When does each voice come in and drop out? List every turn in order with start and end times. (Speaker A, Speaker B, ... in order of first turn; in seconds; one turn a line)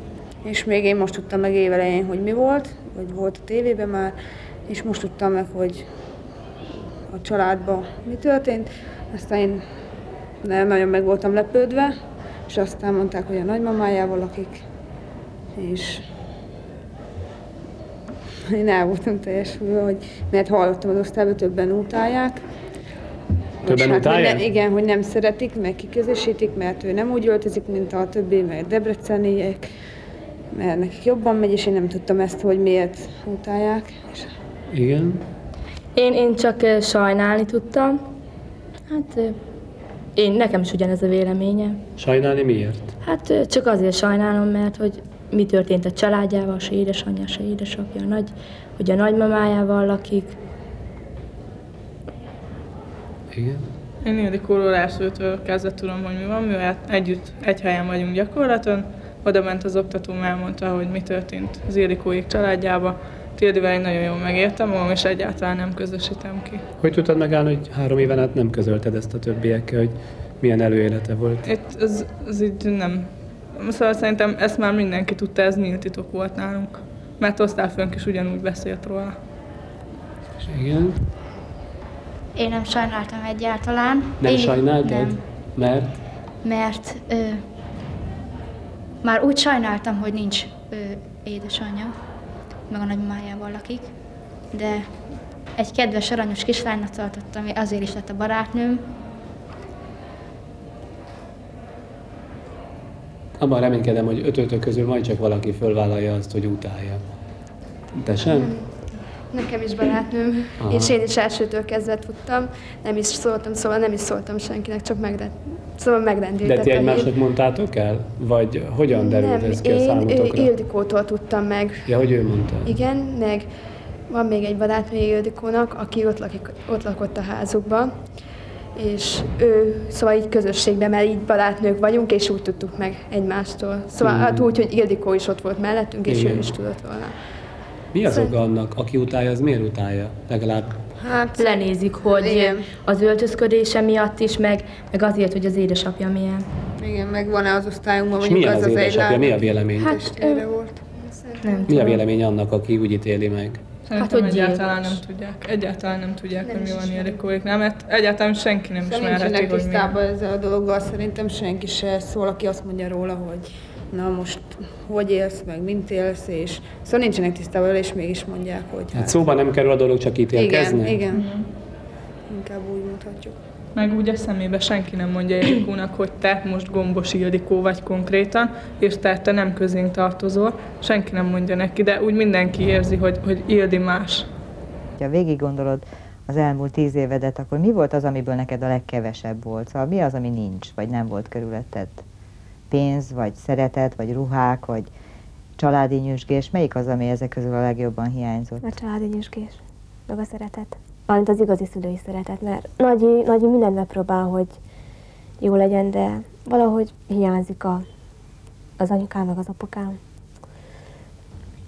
Speaker A: 0.4-4.1
Speaker A: 4.7-5.9
Speaker A: 7.1-9.6
Speaker A: 10.4-11.9
Speaker A: 12.5-14.6
Speaker A: 15.6-16.0
Speaker A: 18.5-22.4
Speaker A: 23.6-29.7
Speaker B: 23.6-24.4
Speaker A: 30.5-34.3
Speaker B: 34.7-35.2
Speaker C: 35.9-37.9
Speaker C: 38.9-39.4
Speaker C: 40.1-41.8
Speaker B: 42.0-42.9
Speaker C: 43.0-50.4
Speaker B: 53.3-53.7
Speaker D: 54.0-66.6
Speaker B: 66.8-71.5
Speaker D: 71.4-79.2
Speaker B: 80.5-81.0
Speaker E: 82.3-84.6
Speaker B: 84.2-86.0
Speaker E: 86.4-87.2
Speaker E: 89.0-90.1
Speaker E: 95.7-98.7
Speaker B: 103.4-107.0
Speaker B: 108.0-108.5
Speaker F: 108.2-108.7
Speaker F: 109.3-117.1
Speaker B: 110.6-111.0
Speaker B: 116.4-120.5
Speaker F: 118.9-122.1
Speaker B: 121.8-122.7
Speaker F: 122.6-123.5
Speaker F: 124.1-128.1
Speaker F: 128.7-137.1
Speaker B: 134.0-134.6
Speaker B: 136.1-136.5
Speaker B: 137.9-140.8
Speaker F: 138.0-138.4
Speaker F: 141.1-142.4
Speaker A: 142.2-142.7
Speaker C: 142.2-146.4
Speaker A: 146.8-150.8
Speaker B: 148.2-149.9
Speaker F: 149.9-150.4
Speaker F: 150.9-152.0
Speaker C: 151.5-151.9
Speaker B: 151.7-153.6
Speaker D: 153.8-159.9
Speaker F: 154.0-155.0
Speaker C: 154.1-154.6
Speaker F: 156.4-157.2
Speaker A: 158.8-169.2
Speaker B: 168.9-171.0
Speaker A: 170.3-171.2
Speaker D: 171.1-171.4
Speaker A: 172.3-173.4
Speaker D: 173.7-184.3
Speaker G: 185.0-192.0
Speaker G: 192.7-194.9
Speaker G: 195.6-198.6
Speaker H: 198.6-204.6
Speaker H: 205.4-207.8
Speaker H: 208.8-210.0